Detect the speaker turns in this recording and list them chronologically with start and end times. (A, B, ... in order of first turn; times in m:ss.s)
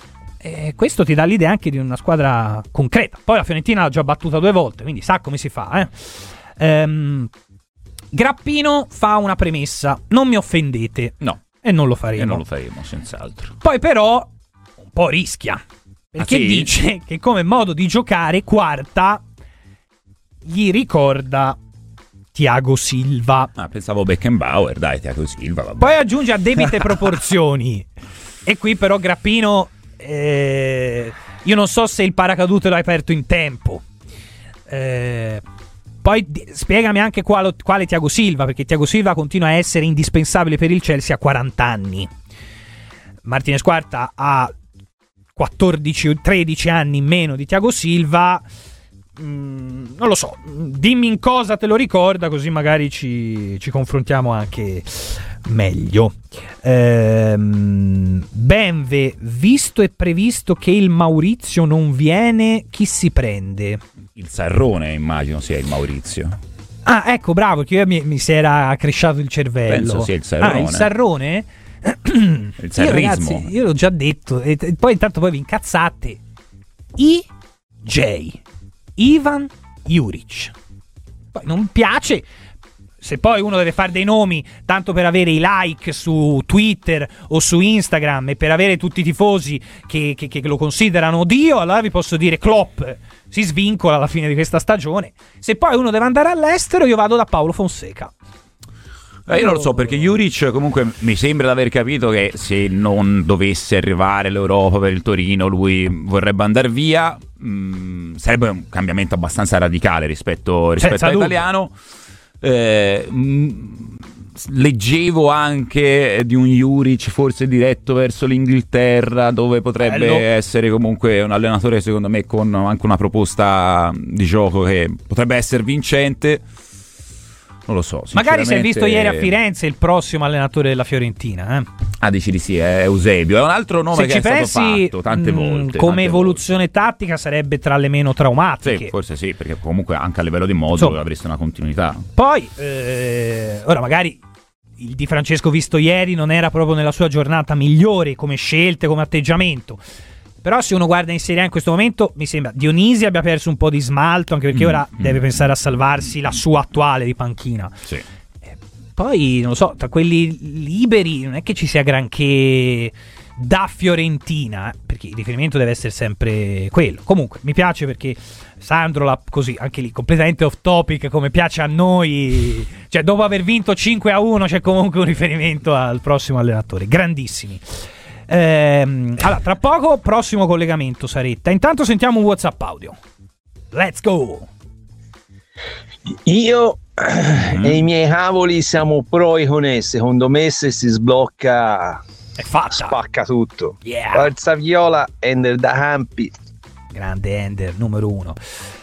0:00.4-0:07.3 A
0:08.1-0:12.4 A
0:12.1-0:13.5 B
0:13.6-0:14.3 A
0:14.9-0:15.6 A
0:16.1-0:19.2 A
0:16.2-0:16.7 B
0:20.4-0:21.6 A
0:22.3-0:23.5 A
0:23.6-0:26.0 B
0:25.8-0:27.9 A
0:26.6-0:26.9 B
0:28.4-0:33.8 A
0:34.7-0:35.4 A
0:36.0-0:42.1 A
0:43.2-0:44.5 A
0:45.4-0:48.4 A
0:49.2-1:03.8 A
1:04.2-1:06.4 B
1:06.8-1:16.2 A
1:09.7-1:10.9 B
1:12.6-1:13.5 B
1:17.0-1:17.2 A
1:17.8-1:18.4 A
1:19.0-1:20.5 A
1:21.3-1:22.2 A
1:23.0-1:38.1 A
1:39.3-1:51.7 B
1:39.3-1:40.1 A
1:50.8-1:51.4 A
1:52.4-2:06.4 B
1:59.8-2:00.2 A
2:07.7-2:09.3 B
2:08.1-2:11.7 A
2:12.0-2:16.4 B
2:13.9-2:18.9 A
2:18.6-2:22.1 B
2:22.2-2:24.2 A
2:24.8-2:29.8 A
2:30.4-2:37.8 A
2:34.5-2:35.2 B
2:39.0-2:57.6 A
2:58.3-3:03.0 A
3:03.7-3:04.5 A
3:06.1-3:12.0 C
3:07.5-3:07.8 B
3:12.4-3:13.0 A
3:12.7-3:16.3 C
3:13.8-3:14.3 A
3:16.9-3:18.4 A